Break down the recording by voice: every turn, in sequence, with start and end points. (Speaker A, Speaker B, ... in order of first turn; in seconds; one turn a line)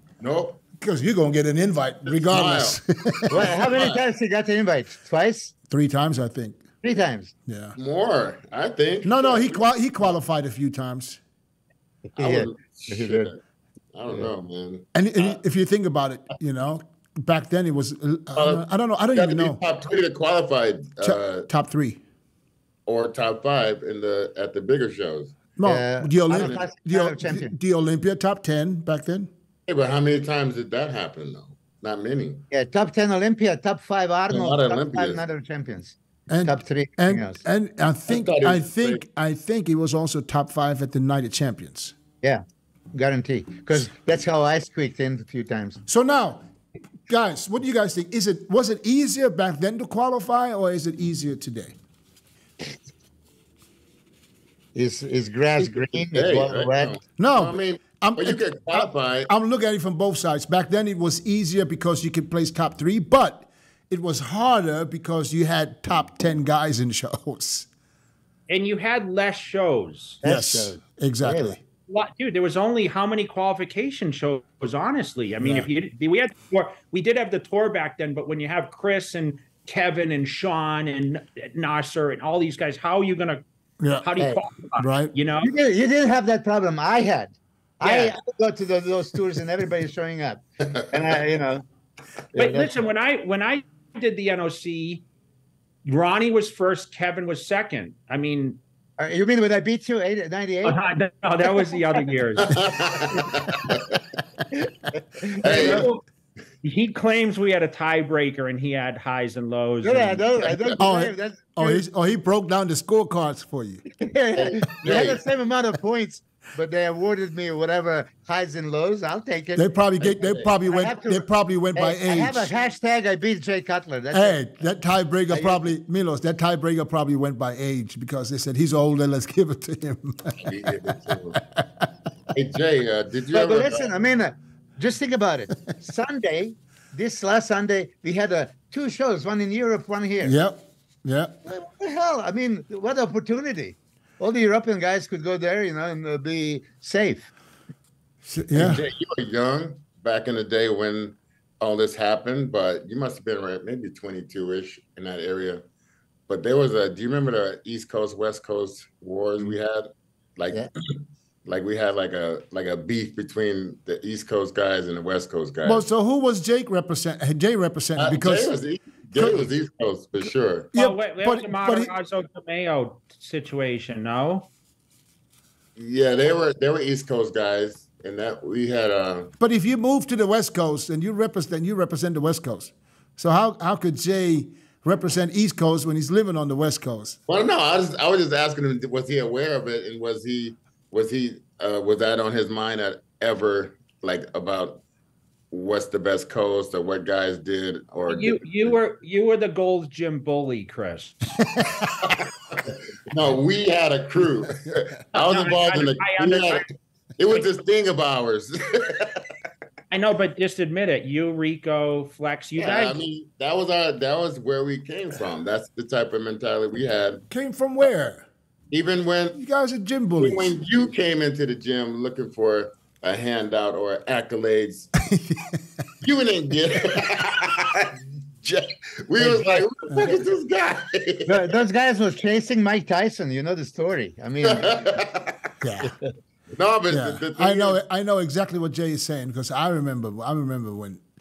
Speaker A: 0.2-0.6
Speaker B: 0.8-3.6
Speaker A: 2.1-4.0
Speaker C: 3.3-5.5
Speaker B: 5.7-6.6
Speaker C: 6.8-7.3
Speaker B: 7.5-7.7
Speaker A: 7.8-9.6
Speaker B: 9.0-11.2
Speaker C: 12.2-13.3
Speaker A: 12.2-13.4
Speaker A: 13.9-15.4
Speaker B: 14.9-19.6
Speaker A: 18.3-21.5
Speaker B: 21.0-22.0
Speaker A: 22.9-25.4
Speaker B: 25.6-29.3
Speaker C: 25.6-27.5
Speaker A: 26.3-26.6
Speaker A: 29.7-32.4
Speaker C: 32.5-37.4
Speaker A: 34.3-35.2
Speaker B: 36.3-42.0
Speaker A: 38.1-39.0
Speaker C: 42.9-45.8
Speaker B: 45.9-46.4
Speaker B: 47.1-51.7
Speaker C: 54.7-56.9
Speaker A: 55.6-59.3
Speaker B: 57.2-67.7
Speaker D: 68.5-70.2
Speaker C: 70.2-71.6
Speaker B: 70.2-71.6
Speaker D: 71.9-83.4
Speaker B: 83.8-84.1
Speaker D: 84.0-85.5
Speaker B: 84.8-85.1
Speaker C: 85.4-91.6
Speaker D: 87.8-88.2
Speaker C: 92.3-92.7
Speaker D: 92.3-95.0
Speaker D: 95.8-98.6
Speaker C: 99.0-100.8
Speaker D: 100.6-102.6
Speaker A: 102.4-103.8
Speaker C: 103.2-103.8
Speaker C: 105.2-105.9
Speaker A: 105.4-105.9
Speaker D: 105.4-106.0
Speaker D: 106.6-110.7
Speaker C: 109.8-111.8
Speaker B: 110.8-113.8
Speaker C: 114.0-124.5
Speaker A: 114.3-115.2
Speaker B: 119.5-122.5
Speaker A: 120.0-120.5
Speaker B: 124.1-131.9
Speaker C: 125.3-125.7
Speaker A: 130.4-131.4
Speaker A: 132.3-133.9
Speaker C: 133.3-140.3
Speaker B: 140.2-141.3
Speaker C: 141.4-147.3
Speaker B: 148.2-148.8
Speaker A: 148.5-155.6
Speaker A: 156.3-165.8
Speaker B: 165.6-168.5
Speaker A: 168.0-170.7
Speaker B: 169.2-169.5
Speaker B: 170.7-171.9
Speaker D: 170.7-174.5
Speaker A: 175.8-179.3
Speaker B: 179.4-187.2
Speaker A: 187.3-194.8
Speaker A: 195.5-198.8
Speaker D: 198.1-201.4
Speaker B: 201.4-201.9
Speaker A: 202.1-209.2
Speaker B: 204.7-204.9
Speaker D: 205.1-206.7
Speaker D: 209.9-213.0
Speaker A: 212.6-217.2
Speaker B: 217.3-218.3
Speaker A: 218.7-219.4
Speaker B: 219.3-220.6
Speaker A: 220.2-224.9
Speaker B: 225.0-225.6
Speaker A: 226.0-231.5
Speaker C: 231.2-235.0
Speaker A: 234.4-235.3
Speaker B: 235.6-235.9
Speaker A: 236.6-237.8
Speaker B: 236.9-241.0